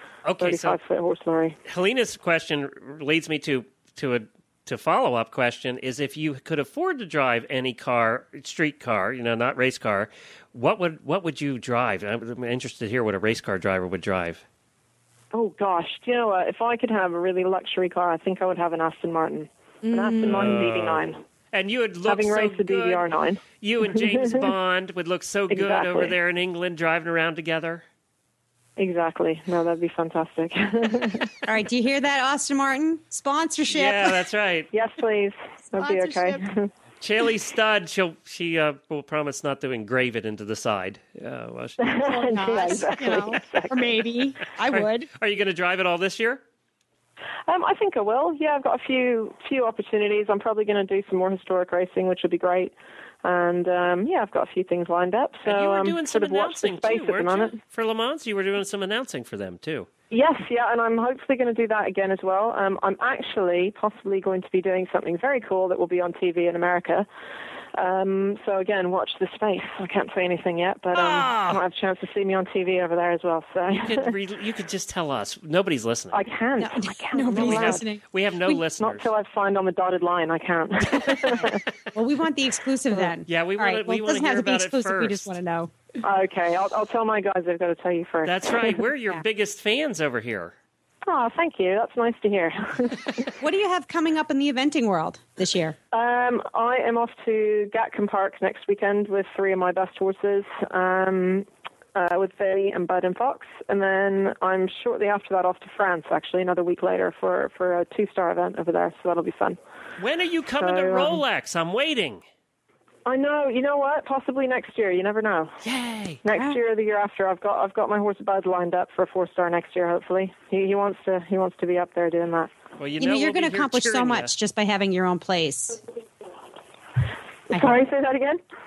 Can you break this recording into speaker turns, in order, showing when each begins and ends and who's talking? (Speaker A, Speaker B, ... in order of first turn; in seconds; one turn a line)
Speaker A: 0.2-0.8
Speaker B: 0.4-1.6
Speaker A: 1.7-14.4
Speaker B: 15.3-21.2
Speaker C: 19.8-20.6
Speaker A: 20.3-23.1
Speaker B: 22.1-24.4
Speaker A: 23.6-27.9
Speaker B: 25.5-26.1
Speaker B: 28.8-31.4
Speaker C: 31.5-34.2
Speaker A: 33.7-34.7
Speaker B: 34.7-36.7
Speaker C: 35.8-36.4
Speaker A: 37.0-42.1
Speaker B: 41.8-44.0
Speaker C: 42.0-45.1
Speaker A: 44.7-46.4
Speaker B: 47.5-57.6
Speaker A: 55.5-59.9
Speaker B: 60.1-67.1
Speaker B: 67.8-74.1
Speaker A: 70.9-71.6
Speaker A: 73.7-76.2
Speaker B: 76.1-77.8
Speaker C: 76.6-78.6
Speaker A: 77.4-79.1
Speaker B: 78.8-81.6
Speaker A: 81.0-81.6
Speaker C: 81.9-85.7
Speaker A: 83.3-85.3
Speaker B: 86.0-88.8
Speaker A: 88.3-90.5
Speaker B: 91.0-93.3
Speaker C: 93.4-95.8
Speaker B: 95.9-109.6
Speaker A: 110.0-112.2
Speaker B: 110.6-111.2
Speaker B: 113.1-115.6
Speaker A: 115.6-116.2
Speaker B: 116.2-122.5
Speaker C: 116.3-116.6
Speaker A: 122.8-124.3
Speaker C: 123.0-125.8
Speaker C: 127.5-127.8
Speaker B: 127.5-128.4